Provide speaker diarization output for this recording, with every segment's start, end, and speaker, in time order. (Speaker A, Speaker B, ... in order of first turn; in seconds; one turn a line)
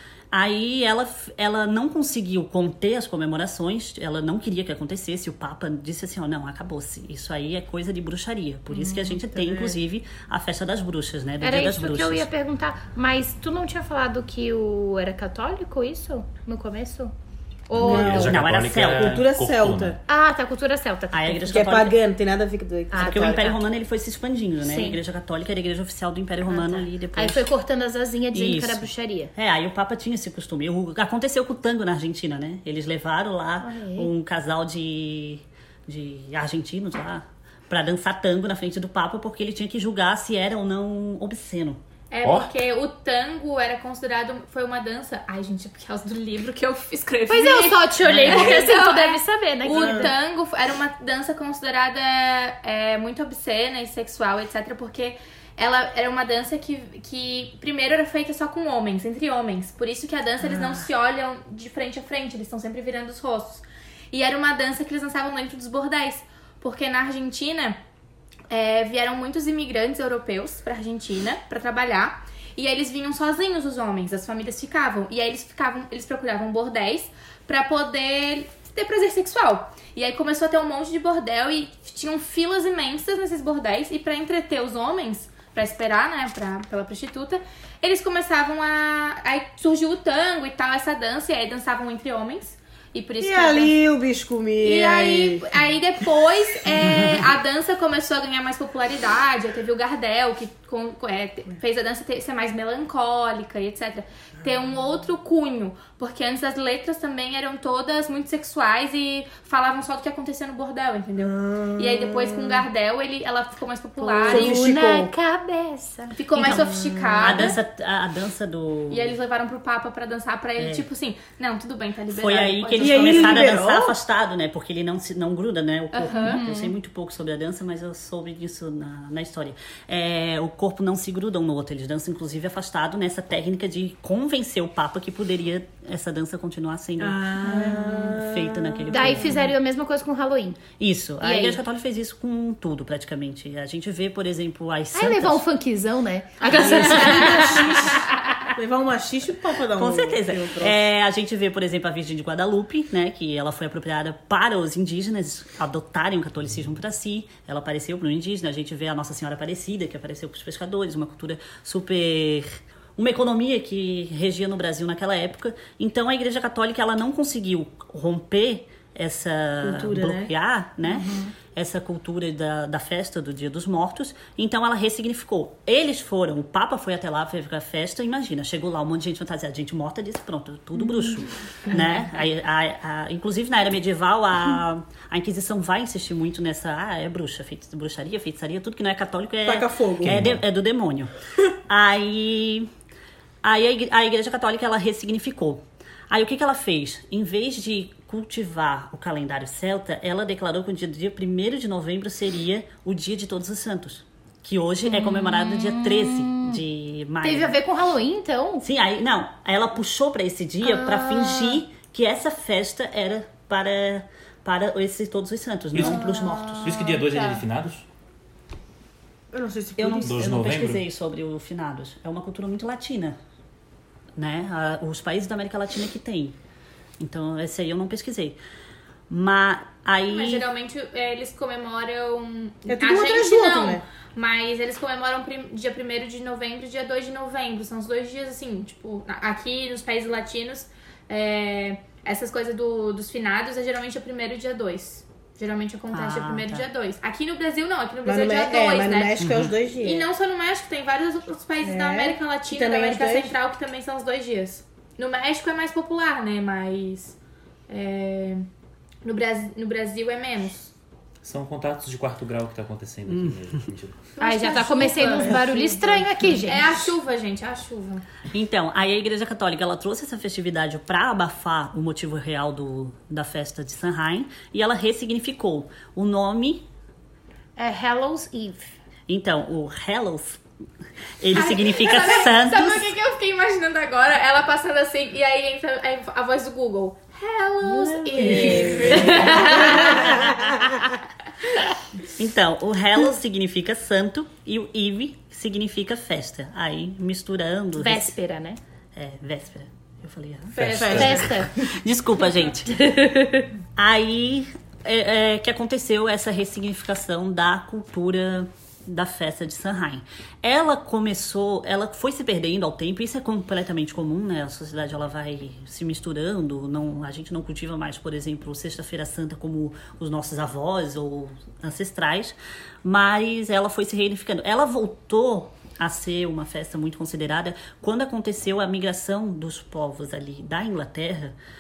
Speaker A: 0.3-12.3
Speaker B: 8.7-9.2
Speaker B: 11.4-17.1
Speaker B: 17.7-18.2
Speaker C: 17.8-20.0
Speaker D: 17.8-18.4
Speaker A: 17.8-19.3
Speaker D: 18.9-20.0
Speaker B: 20.1-21.9
Speaker A: 21.1-22.0
Speaker D: 21.5-23.4
Speaker B: 22.9-23.6
Speaker A: 23.0-27.5
Speaker B: 24.6-25.0
Speaker B: 26.5-29.3
Speaker A: 28.3-41.8
Speaker B: 33.6-34.1
Speaker E: 42.1-67.8
Speaker C: 42.2-42.5
Speaker B: 47.3-50.1
Speaker D: 49.7-50.1
Speaker E: 68.5-93.8
Speaker D: 93.2-95.5
Speaker E: 94.6-114.6
Speaker D: 111.2-112.7
Speaker B: 114.0-116.2
Speaker D: 114.2-115.1
Speaker E: 116.1-117.6
Speaker A: 116.4-116.7
Speaker D: 116.5-117.4
Speaker A: 117.2-119.2
Speaker E: 118.9-123.6
Speaker A: 120.6-120.9
Speaker A: 122.1-139.5
Speaker D: 122.8-124.0
Speaker E: 125.9-126.4
Speaker B: 126.1-126.8
Speaker D: 137.0-139.3
Speaker B: 138.9-140.6
Speaker A: 140.8-145.4
Speaker B: 141.2-141.6
Speaker B: 144.9-147.9
Speaker A: 146.5-147.7
Speaker D: 146.5-150.8
Speaker A: 149.7-191.1
Speaker D: 169.6-170.3
Speaker B: 171.0-171.3
Speaker D: 189.4-190.2
Speaker C: 190.0-190.4
Speaker A: 191.7-192.7
Speaker A: 193.4-207.6
Speaker B: 204.8-206.6
Speaker B: 207.2-208.7
Speaker A: 208.6-216.8
Speaker B: 210.6-211.6
Speaker C: 215.7-217.8
Speaker B: 215.8-217.4
Speaker D: 219.3-220.3
Speaker A: 219.8-223.2
Speaker C: 220.0-220.8
Speaker A: 224.2-226.4
Speaker A: 227.0-228.4
Speaker A: 229.1-230.5
Speaker E: 230.1-257.2
Speaker D: 232.7-233.8
Speaker A: 245.9-246.7
Speaker D: 248.1-250.1
Speaker A: 249.2-249.6
Speaker D: 251.6-253.3
Speaker E: 257.7-258.4
Speaker E: 259.0-260.7
Speaker C: 261.2-264.0
Speaker A: 263.1-263.6
Speaker E: 264.2-265.9
Speaker B: 264.2-266.7
Speaker E: 266.4-268.0
Speaker A: 268.3-276.7
Speaker B: 277.6-278.7
Speaker A: 279.1-280.4
Speaker A: 281.2-282.9
Speaker E: 281.3-290.3
Speaker D: 288.2-289.2
Speaker B: 288.4-289.8
Speaker A: 288.9-290.5
Speaker A: 292.1-298.2
Speaker B: 297.8-298.6
Speaker A: 298.9-302.7
Speaker D: 300.6-301.4
Speaker C: 300.6-301.3
Speaker E: 300.6-301.0
Speaker B: 300.9-301.5
Speaker B: 302.7-303.5
Speaker A: 303.8-331.4